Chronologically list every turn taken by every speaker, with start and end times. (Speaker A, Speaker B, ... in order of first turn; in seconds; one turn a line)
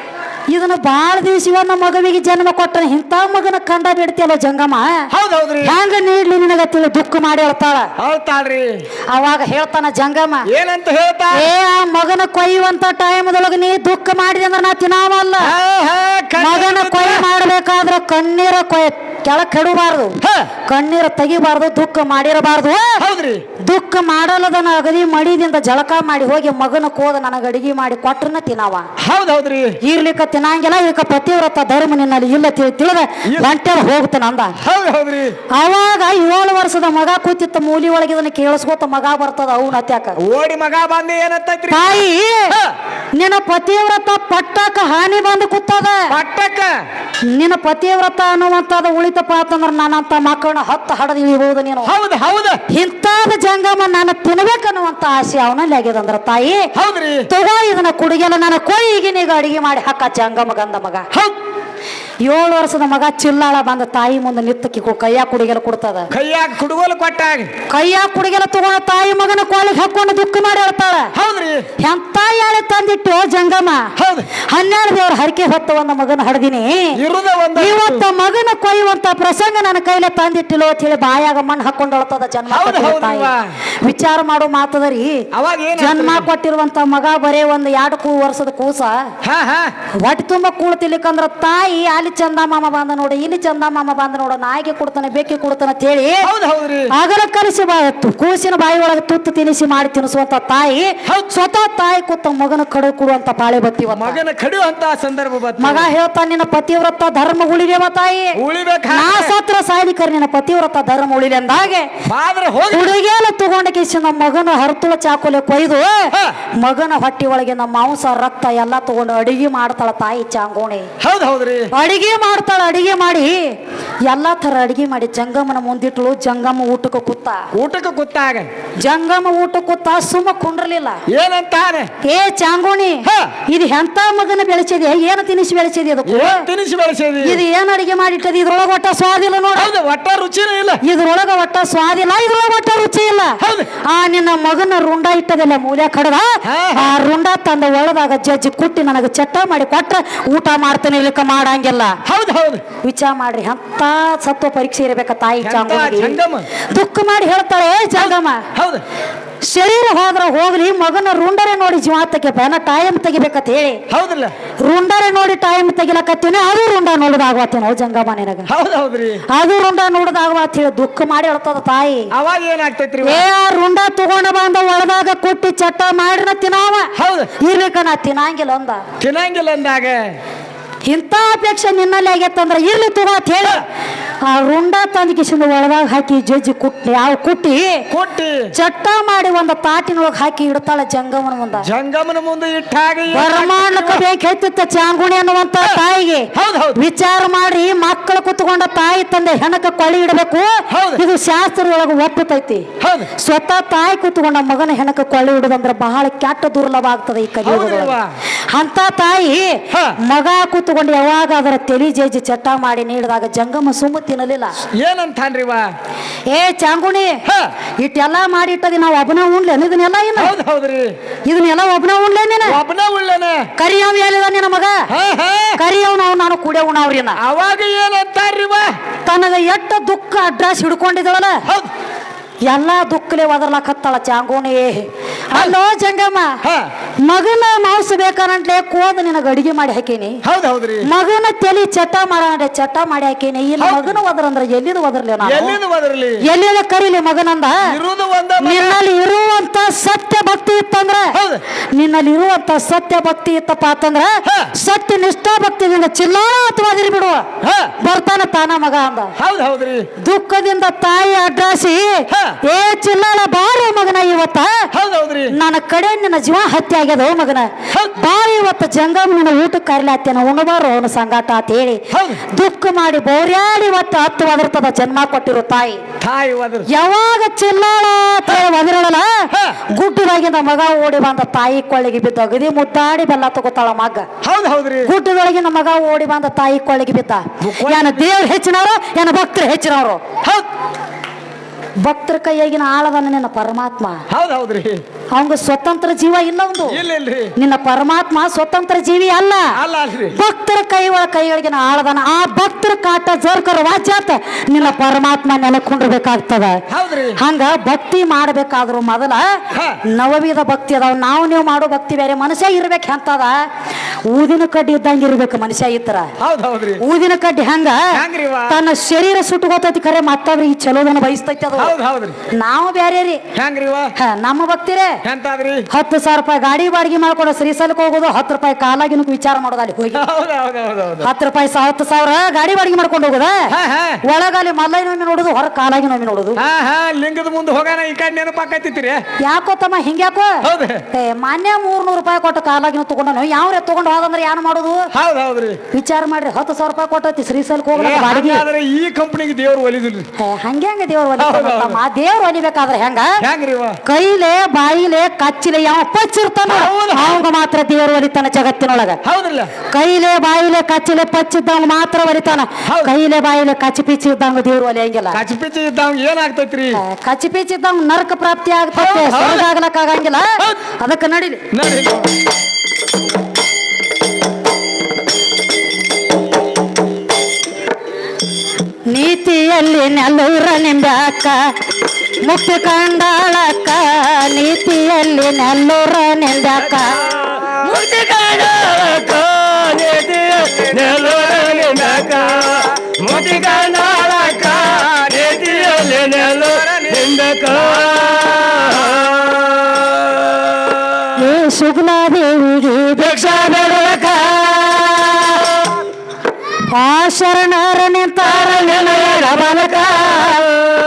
Speaker A: 0.5-5.1
Speaker B: 5.1-5.7
Speaker A: 5.6-7.9
Speaker B: 8.0-8.8
Speaker A: 9.1-10.5
Speaker B: 10.5-11.5
Speaker A: 11.3-15.5
Speaker B: 15.4-17.2
Speaker A: 16.4-23.0
Speaker B: 20.2-20.5
Speaker B: 23.0-23.4
Speaker A: 23.6-28.9
Speaker B: 29.0-29.8
Speaker A: 29.8-34.6
Speaker B: 33.2-33.5
Speaker B: 34.6-35.4
Speaker A: 35.5-40.2
Speaker B: 40.2-41.9
Speaker A: 41.7-42.6
Speaker B: 42.5-42.8
Speaker A: 43.1-46.1
Speaker B: 46.1-46.8
Speaker A: 47.3-51.9
Speaker B: 51.8-52.6
Speaker A: 52.7-56.7
Speaker B: 56.7-57.3
Speaker A: 57.3-61.1
Speaker A: 62.2-66.1
Speaker B: 66.1-67.5
Speaker A: 67.7-71.1
Speaker B: 71.1-71.7
Speaker A: 71.8-73.9
Speaker B: 74.0-74.3
Speaker A: 74.5-77.0
Speaker B: 77.0-78.0
Speaker A: 77.5-83.3
Speaker B: 82.5-83.5
Speaker A: 83.8-89.1
Speaker B: 85.3-86.3
Speaker B: 89.2-89.7
Speaker A: 90.0-96.3
Speaker B: 96.2-96.9
Speaker A: 96.9-104.2
Speaker B: 103.9-105.9
Speaker A: 105.6-108.4
Speaker B: 108.3-109.3
Speaker A: 108.9-111.9
Speaker B: 112.0-113.0
Speaker A: 112.7-120.9
Speaker B: 121.0-121.7
Speaker A: 121.7-127.5
Speaker B: 127.5-128.5
Speaker A: 128.8-131.0
Speaker B: 131.1-131.9
Speaker A: 132.0-136.5
Speaker B: 133.0-133.3
Speaker B: 136.1-137.4
Speaker A: 137.2-139.7
Speaker B: 139.6-140.8
Speaker A: 140.8-152.0
Speaker B: 143.4-143.7
Speaker B: 146.4-146.9
Speaker B: 152.0-152.6
Speaker A: 152.8-156.2
Speaker B: 155.4-156.5
Speaker A: 156.7-158.4
Speaker B: 158.0-158.8
Speaker A: 159.4-163.8
Speaker B: 163.9-164.3
Speaker A: 164.6-168.5
Speaker B: 168.5-169.2
Speaker A: 169.3-172.1
Speaker B: 172.1-173.3
Speaker A: 173.0-178.8
Speaker B: 176.9-177.3
Speaker B: 179.0-180.2
Speaker A: 180.8-183.6
Speaker A: 184.2-187.8
Speaker B: 187.9-188.5
Speaker A: 188.5-191.7
Speaker B: 191.6-194.0
Speaker A: 193.1-208.0
Speaker B: 196.3-196.8
Speaker B: 200.7-201.0
Speaker B: 202.8-203.1
Speaker B: 207.4-208.1
Speaker A: 208.5-214.5
Speaker B: 209.7-210.0
Speaker B: 214.8-215.7
Speaker A: 216.3-217.2
Speaker B: 217.2-217.5
Speaker A: 217.8-220.3
Speaker B: 220.2-220.9
Speaker A: 221.3-222.6
Speaker B: 222.4-223.5
Speaker A: 223.6-224.8
Speaker B: 224.9-225.6
Speaker A: 225.6-227.2
Speaker B: 227.2-228.8
Speaker A: 229.1-231.4
Speaker A: 232.5-236.4
Speaker A: 237.0-240.2
Speaker B: 240.2-240.9
Speaker A: 240.8-245.6
Speaker B: 243.6-244.0
Speaker B: 245.2-246.2
Speaker A: 246.2-247.8
Speaker B: 247.6-248.8
Speaker A: 248.4-251.2
Speaker B: 251.1-251.4
Speaker A: 251.7-257.3
Speaker B: 254.2-254.5
Speaker B: 257.4-257.7
Speaker A: 257.8-259.1
Speaker B: 259.2-259.9
Speaker A: 260.0-264.7
Speaker B: 262.1-262.4
Speaker B: 264.7-265.3
Speaker A: 265.3-275.8
Speaker B: 267.7-267.9
Speaker B: 271.9-272.2
Speaker B: 276.0-276.7
Speaker A: 276.7-284.1
Speaker B: 279.3-279.6
Speaker B: 284.2-284.9
Speaker A: 284.8-290.0
Speaker B: 287.4-288.1
Speaker A: 291.8-294.0
Speaker B: 294.1-294.8
Speaker A: 295.1-296.8
Speaker B: 296.7-297.3
Speaker A: 297.4-299.6
Speaker B: 299.6-300.1
Speaker A: 300.1-306.6
Speaker B: 306.7-307.2
Speaker A: 307.2-313.4
Speaker B: 309.5-309.8
Speaker A: 314.1-316.1
Speaker B: 316.2-316.8
Speaker A: 316.8-321.7
Speaker B: 317.9-318.6
Speaker B: 321.5-322.2
Speaker A: 322.3-323.2
Speaker B: 323.3-323.9
Speaker A: 323.9-325.0
Speaker B: 325.0-325.7
Speaker A: 325.7-330.0
Speaker B: 329.9-331.1
Speaker A: 331.0-333.5
Speaker B: 333.5-334.0
Speaker A: 334.0-336.4
Speaker B: 336.4-339.0
Speaker A: 339.2-344.9
Speaker B: 340.4-340.8
Speaker B: 344.9-345.6
Speaker A: 345.7-348.4
Speaker B: 347.7-350.1
Speaker A: 350.2-353.2
Speaker B: 351.2-351.8
Speaker B: 353.2-353.8
Speaker A: 353.8-359.0
Speaker B: 356.5-357.1
Speaker B: 359.0-359.5
Speaker A: 359.7-365.2
Speaker B: 362.6-362.9
Speaker B: 365.1-366.8
Speaker A: 366.8-371.4
Speaker B: 368.7-369.5
Speaker B: 371.5-372.1
Speaker A: 378.9-381.5
Speaker A: 382.2-387.0
Speaker C: 387.1-392.9
Speaker B: 391.1-392.3
Speaker B: 392.8-397.1
Speaker C: 393.4-399.8
Speaker B: 397.8-398.4
Speaker A: 401.1-405.2
Speaker C: 403.2-405.1
Speaker A: 406.7-410.5
Speaker C: 408.5-410.3